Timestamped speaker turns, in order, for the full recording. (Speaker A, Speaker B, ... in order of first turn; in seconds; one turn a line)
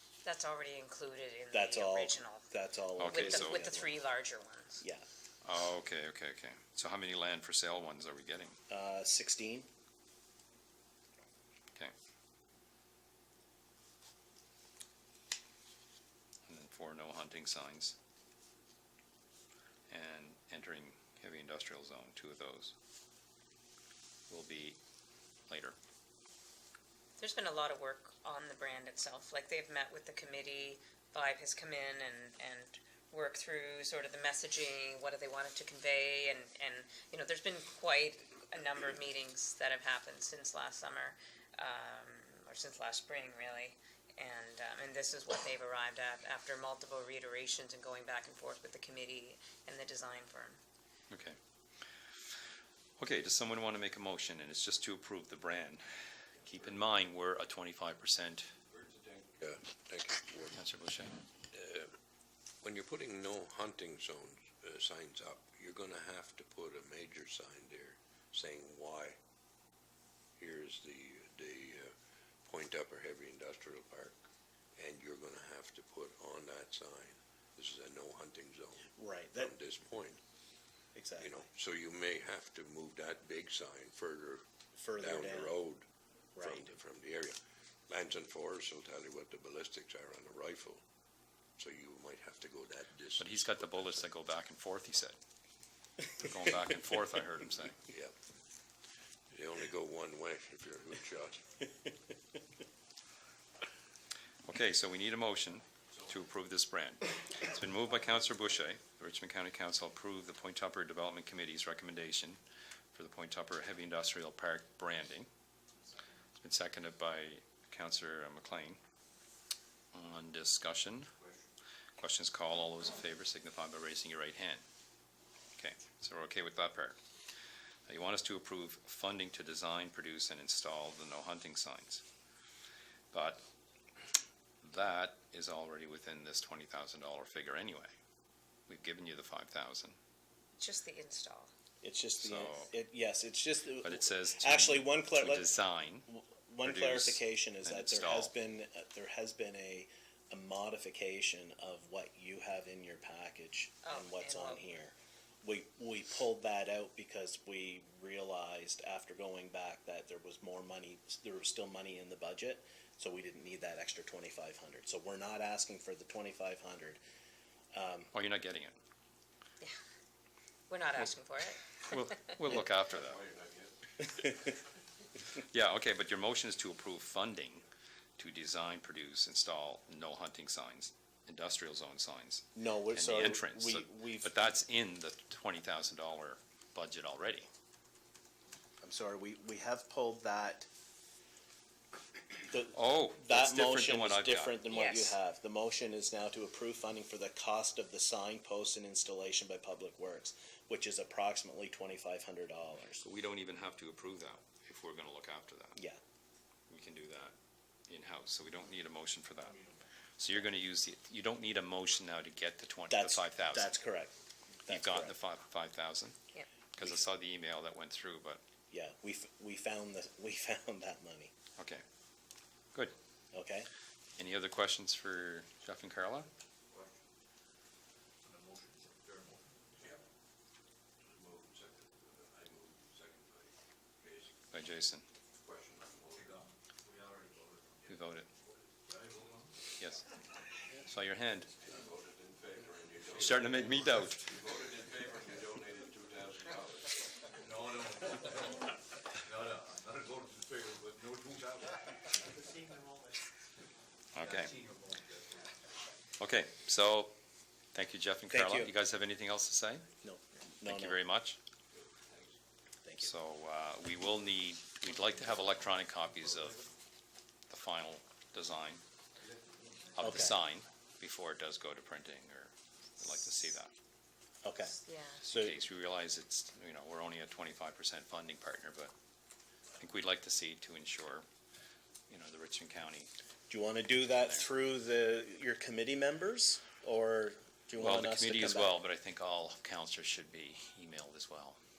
Speaker A: 0.2-2.5
Speaker B: 1.5-3.9
Speaker C: 3.0-3.7
Speaker A: 3.0-4.8
Speaker C: 5.4-8.6
Speaker B: 8.7-9.7
Speaker C: 16.5-17.9
Speaker C: 19.9-22.7
Speaker C: 24.3-24.8
Speaker C: 25.5-25.8
Speaker A: 27.2-50.6
Speaker C: 51.1-51.4
Speaker C: 53.0-55.8
Speaker C: 56.4-58.5
Speaker D: 58.8-59.2
Speaker E: 59.4-60.6
Speaker C: 60.5-61.1
Speaker E: 61.5-61.9
Speaker E: 62.6-69.2
Speaker E: 70.4-71.9
Speaker E: 72.4-74.2
Speaker E: 74.8-80.2
Speaker B: 78.9-79.5
Speaker B: 80.9-81.4
Speaker E: 81.2-84.4
Speaker B: 84.8-85.6
Speaker E: 85.0-85.8
Speaker B: 86.3-86.7
Speaker E: 86.4-87.4
Speaker E: 87.9-90.8
Speaker E: 91.6-94.1
Speaker C: 93.2-95.2
Speaker C: 96.1-97.8
Speaker E: 97.9-98.1
Speaker E: 99.3-101.6
Speaker C: 104.4-112.4
Speaker C: 112.9-115.3
Speaker C: 116.4-118.8
Speaker C: 119.9-121.1
Speaker C: 122.0-124.6
Speaker C: 125.5-127.0
Speaker C: 127.9-132.0
Speaker C: 133.1-133.4
Speaker C: 134.6-137.9
Speaker C: 138.7-140.0
Speaker A: 140.6-141.5
Speaker B: 141.8-167.0
Speaker C: 142.2-142.7
Speaker C: 143.7-146.1
Speaker C: 146.6-148.3
Speaker A: 153.8-154.6
Speaker B: 167.7-168.1
Speaker C: 168.1-168.8
Speaker A: 170.7-172.2
Speaker C: 171.8-173.2
Speaker E: 172.5-173.8
Speaker C: 175.3-177.6
Speaker C: 178.2-187.5
Speaker B: 182.6-184.5
Speaker B: 188.8-190.7
Speaker B: 192.5-203.0
Speaker C: 192.7-194.7
Speaker A: 194.7-195.2
Speaker C: 203.0-205.8
Speaker C: 206.7-207.3
Speaker C: 207.9-209.6
Speaker C: 210.2-213.8
Speaker B: 212.9-214.1
Speaker B: 214.6-215.2
Speaker C: 214.7-216.2
Speaker C: 216.7-218.4
Speaker B: 218.7-221.3
Speaker C: 221.6-221.8
Speaker B: 223.3-223.7
Speaker C: 224.2-226.3
Speaker E: 226.7-227.0
Speaker D: 228.2-229.6
Speaker E: 231.0-234.4
Speaker C: 234.5-235.0
Speaker E: 235.4-236.3
Speaker D: 236.1-237.9
Speaker C: 237.9-238.3
Speaker D: 238.8-239.6
Speaker C: 239.8-240.1
Speaker C: 240.7-241.5
Speaker E: 241.6-246.9
Speaker C: 243.1-244.3
Speaker D: 243.2-244.1
Speaker D: 247.4-253.0
Speaker C: 254.1-254.5
Speaker D: 254.2-255.5
Speaker C: 256.2-257.1
Speaker C: 257.7-259.9
Speaker B: 258.3-258.7
Speaker B: 260.0-261.0
Speaker C: 260.6-261.4
Speaker E: 261.7-262.3
Speaker B: 262.8-263.1
Speaker C: 263.0-266.6
Speaker C: 267.5-268.8
Speaker D: 269.2-270.2
Speaker C: 269.9-273.7
Speaker B: 270.0-270.3
Speaker B: 274.4-274.8
Speaker A: 274.8-275.2
Speaker C: 275.2-278.9
Speaker B: 275.3-275.6
Speaker C: 279.8-281.2
Speaker C: 282.1-283.1
Speaker B: 283.5-288.7
Speaker C: 284.1-284.4
Speaker C: 287.8-291.6